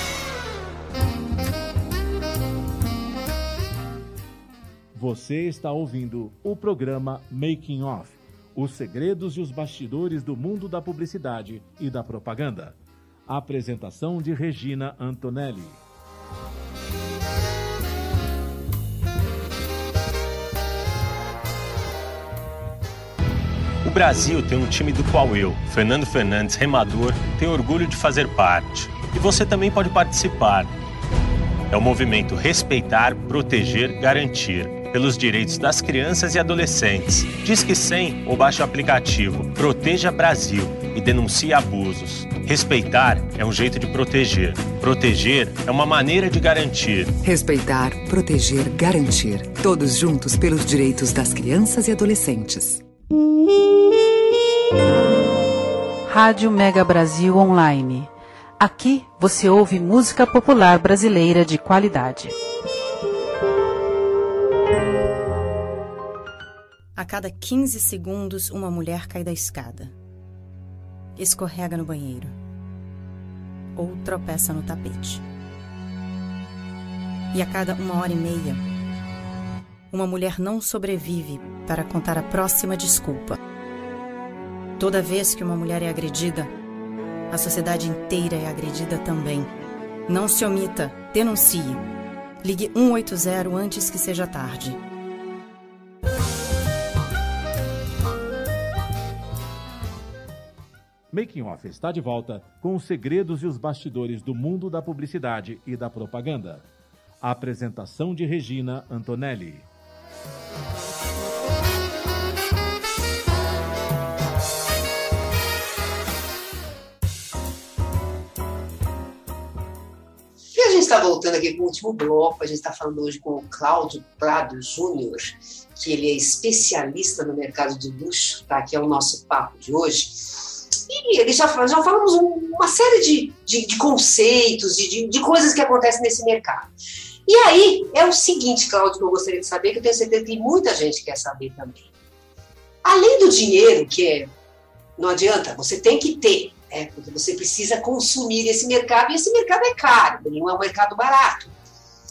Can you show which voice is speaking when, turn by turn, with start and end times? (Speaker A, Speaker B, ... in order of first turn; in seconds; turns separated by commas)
Speaker A: 4.9-15.8, Speaker B: 23.8-30.7, Speaker B: 31.7-47.1, Speaker C: 47.2-52.8, Speaker D: 56.1-62.4, Speaker E: 67.0-69.9, Speaker E: 71.2-72.3, Speaker E: 73.7-75.2, Speaker E: 77.3-78.6, Speaker E: 79.9-83.4, Speaker E: 84.8-86.5, Speaker E: 87.3-89.5, Speaker E: 90.1-91.8, Speaker E: 92.4-94.8, Speaker A: 101.1-106.7, Speaker A: 107.2-109.7, Speaker F: 120.5-136.7, Speaker F: 137.2-141.9, Speaker F: 142.8-144.3, Speaker F: 145.0-151.6